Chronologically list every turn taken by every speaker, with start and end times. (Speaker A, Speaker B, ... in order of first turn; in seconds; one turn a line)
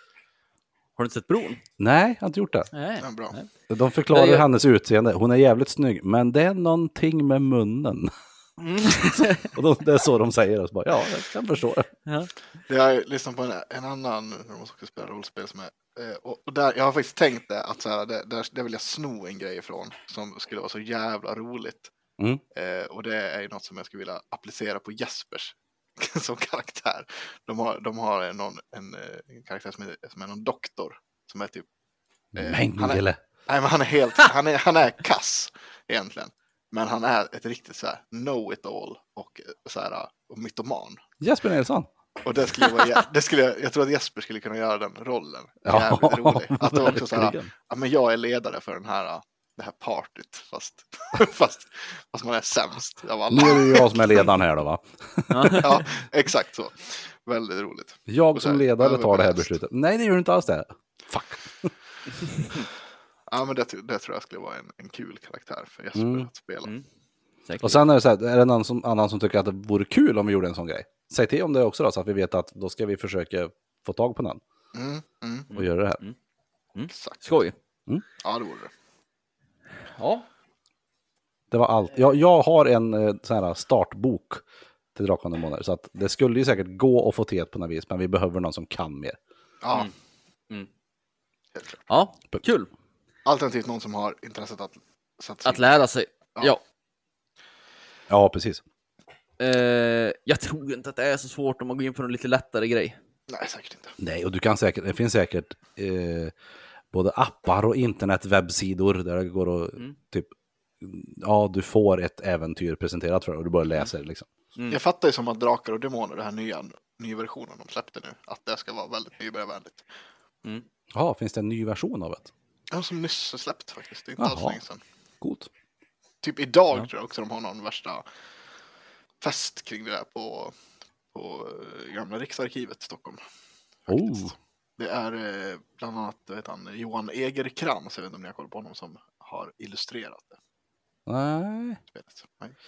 Speaker A: 1.0-1.6
Speaker B: 1.8-2.7
Speaker A: 2.7-3.5
Speaker C: 3.0-3.4
Speaker B: 3.7-8.1
Speaker A: 4.1-4.5
Speaker A: 8.6-9.5
Speaker B: 8.9-11.9
Speaker C: 12.7-21.9
Speaker C: 22.5-31.7
Speaker B: 32.4-33.2
Speaker C: 32.4-41.0
Speaker B: 41.2-41.9
Speaker C: 42.2-53.9
Speaker B: 45.6-47.5
Speaker B: 53.3-55.6
Speaker A: 55.3-55.8
Speaker C: 55.6-59.5
Speaker B: 58.1-61.7
Speaker C: 63.3-66.7
Speaker B: 66.0-66.3
Speaker A: 67.5-67.8
Speaker B: 67.6-74.4
Speaker C: 74.7-75.5
Speaker A: 75.5-76.2
Speaker B: 75.5-76.0
Speaker A: 76.8-77.5
Speaker C: 76.9-77.4
Speaker C: 78.2-78.7
Speaker A: 80.0-80.3
Speaker B: 81.5-84.4
Speaker B: 85.0-89.2
Speaker C: 89.6-89.9
Speaker A: 91.9-92.7
Speaker C: 93.2-95.7
Speaker A: 95.5-96.6
Speaker B: 98.1-98.6
Speaker A: 99.4-103.0
Speaker C: 103.3-103.9
Speaker B: 104.0-106.3
Speaker B: 106.9-114.3
Speaker C: 114.7-119.8
Speaker B: 120.9-122.3
Speaker C: 122.7-124.8
Speaker B: 124.2-124.6
Speaker B: 125.2-125.5
Speaker C: 126.2-128.0
Speaker C: 129.2-130.5
Speaker C: 131.1-133.2
Speaker C: 133.9-140.4
Speaker B: 133.9-134.3
Speaker B: 141.1-141.8
Speaker C: 141.9-142.6